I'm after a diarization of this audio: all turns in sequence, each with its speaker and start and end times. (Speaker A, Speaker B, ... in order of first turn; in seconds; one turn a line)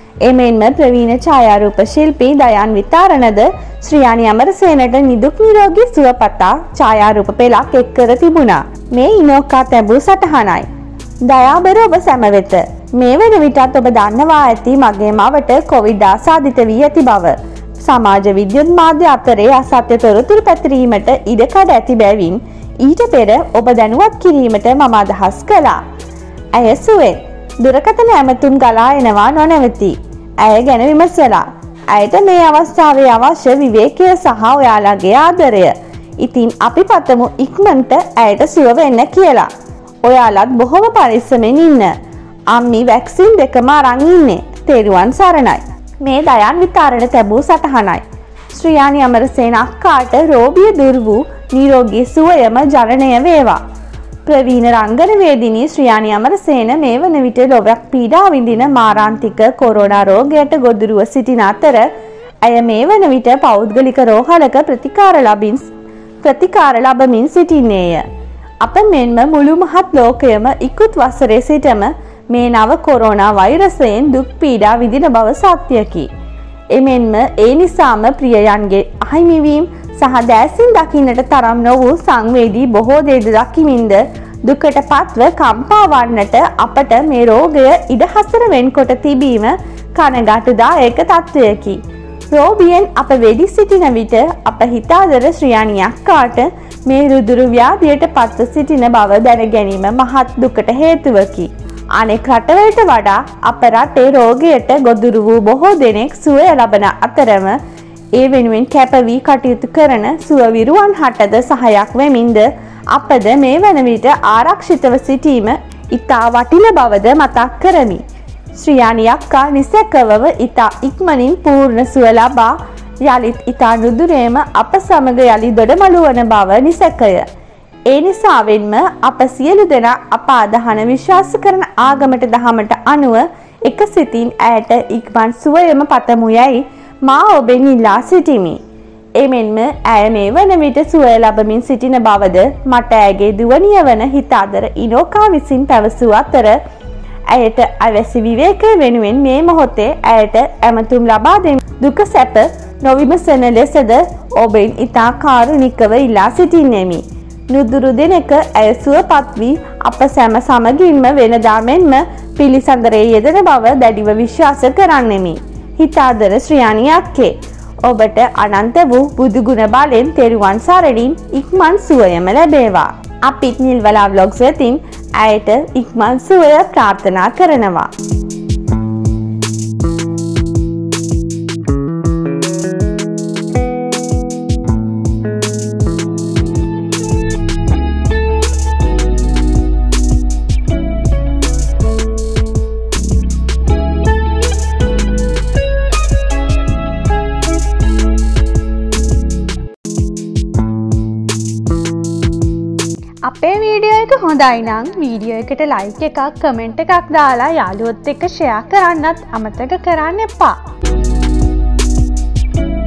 Speaker A: 0.2-10.7
Speaker A: 11.2-25.8
Speaker A: 26.5-39.5
Speaker A: 40.0-41.9
Speaker A: 42.5-53.6
Speaker A: 54.2-61.9
Speaker A: 62.4-65.7
Speaker A: 66.2-68.1
Speaker A: 68.6-76.1
Speaker A: 76.7-91.8
Speaker A: 92.3-107.6
Speaker A: 108.2-118.0
Speaker A: 118.5-127.3
Speaker A: 127.9-138.6
Speaker A: 139.2-146.6
Speaker A: 147.3-177.9
Speaker A: 203.2-210.6